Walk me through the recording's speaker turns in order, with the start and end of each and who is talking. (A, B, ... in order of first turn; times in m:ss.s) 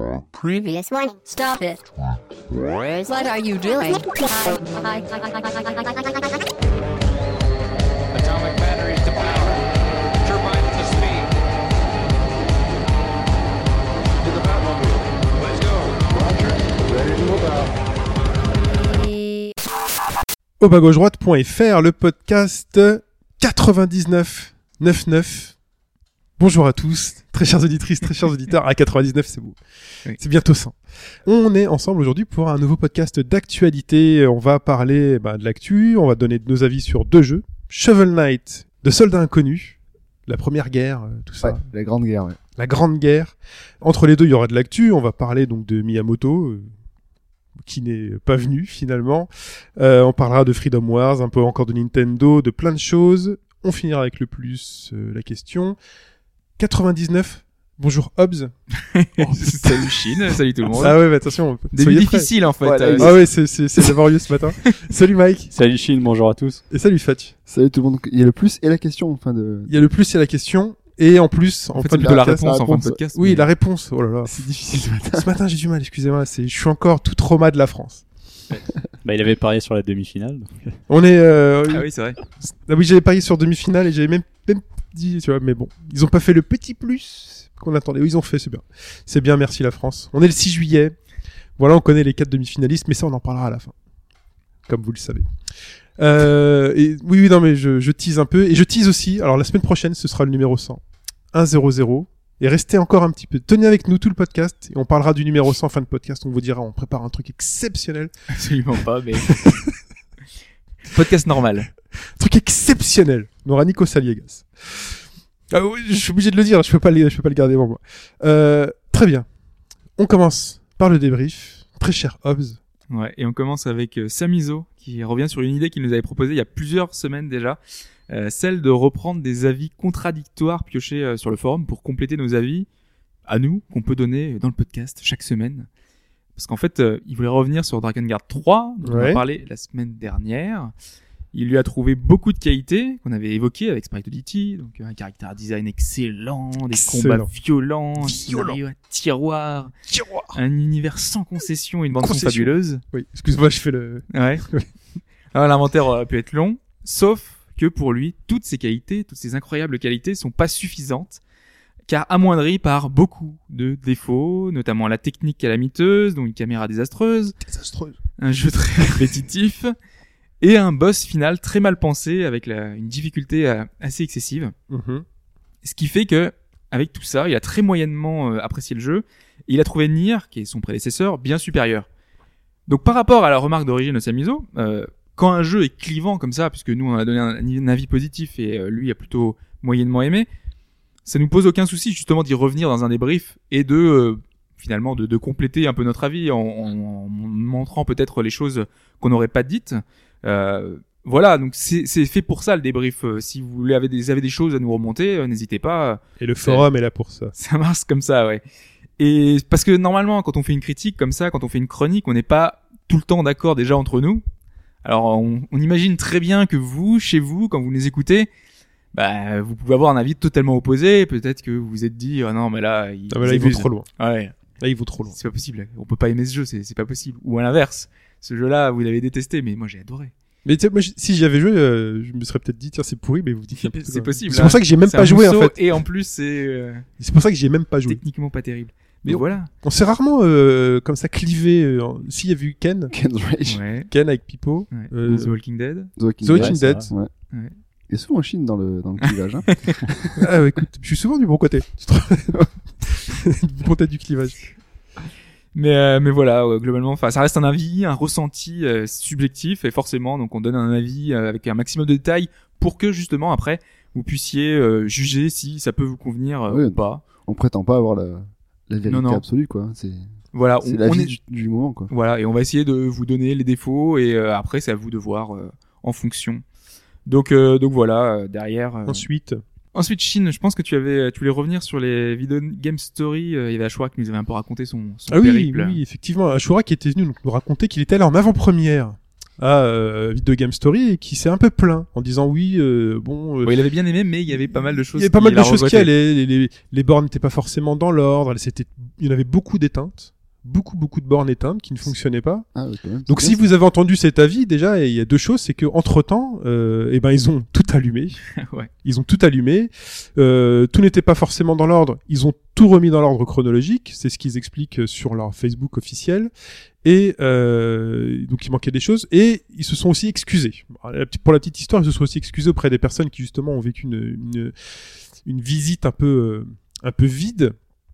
0:00.4-0:01.9 A
0:03.0-0:06.5 A
0:08.1-0:09.7 B
0:10.2-0:11.4 B
0:14.2-0:17.7 B
0:18.7-0:19.5 A
0:20.6-0:25.5 C
0:26.4-0:29.6 C
0:30.2-0:41.6 C
0:41.4-0:42.4 D
0:42.6-0:46.7 C
0:47.6-0:55.8 C
0:56.6-0:58.5 C
0:58.8-1:01.0 E
0:59.2-1:00.2 C
1:00.8-1:02.3 C
1:01.7-1:03.2 E
1:02.6-1:03.2 D
1:03.0-1:05.5 C
1:05.5-1:06.6 F
1:06.7-1:07.3 C
1:07.5-1:09.7 D
1:09.7-1:14.5 C
1:11.8-1:13.4 E
1:12.0-1:13.0 D
1:14.3-1:15.3 D
1:15.1-1:18.0 C
1:19.0-1:20.8 F
1:20.9-1:21.9 C
1:21.7-1:22.2 E
1:22.4-1:31.0 C
1:31.6-1:33.7 C
1:34.7-1:35.2 C
1:36.0-1:40.8 C
1:41.3-1:48.1 C
1:48.3-1:49.4 E
1:49.2-1:49.7 C
1:50.8-1:51.7 E
1:52.2-1:55.0 C
1:55.5-1:59.3 C
2:00.0-2:02.6 C
2:02.9-2:07.6 E
2:08.1-2:12.7 E
2:13.3-2:15.7 E
2:16.4-2:20.7 E
2:18.8-2:19.2 C
2:21.3-2:29.7 E
2:26.8-2:27.3 C
2:28.0-2:28.6 C
2:29.9-2:30.4 C
2:30.3-2:32.8 E
2:32.0-2:34.7 C
2:34.1-2:34.4 E
2:35.3-2:41.2 E
2:41.9-2:47.4 E
2:47.4-2:48.0 C
2:48.2-2:49.7 E
2:48.8-2:49.1 C
2:50.4-2:54.5 E
2:54.7-2:55.0 C
2:55.6-3:01.9 E
3:02.7-3:10.3 E
3:11.0-3:26.7 E
3:26.2-3:27.3 C
3:27.3-3:28.4 E
3:29.0-3:34.2 E
3:34.8-3:38.3 E
3:38.9-3:44.4 E
3:43.1-3:43.9 C
3:44.6-3:45.2 C
3:45.1-3:50.1 E
3:50.4-3:55.6 C
3:53.6-3:56.9 E
3:57.0-3:58.0 C
3:57.9-3:59.5 E
3:59.1-4:02.9 C
4:02.9-4:03.6 D
4:03.5-4:03.9 E
4:03.9-4:05.3 C
4:04.7-4:05.9 E
4:06.0-4:07.1 D
4:06.2-4:06.9 C
4:06.3-4:06.9 F
4:07.9-4:10.3 D
4:09.0-4:09.8 E
4:10.2-4:14.5 C
4:15.5-4:27.0 E
4:26.5-4:30.1 D
4:28.9-4:29.2 E
4:30.3-4:31.2 E
4:30.6-4:31.9 D
4:31.9-4:36.4 E
4:37.1-4:39.1 E
4:38.9-4:39.4 C
4:39.7-4:45.8 E
4:45.1-4:53.5 C
4:53.4-4:55.9 E
4:54.4-5:02.5 C
5:02.6-5:03.4 D
5:03.1-5:08.2 C
5:08.4-5:08.7 E
5:08.8-5:16.3 C
5:16.8-5:24.5 C
5:25.2-5:27.5 C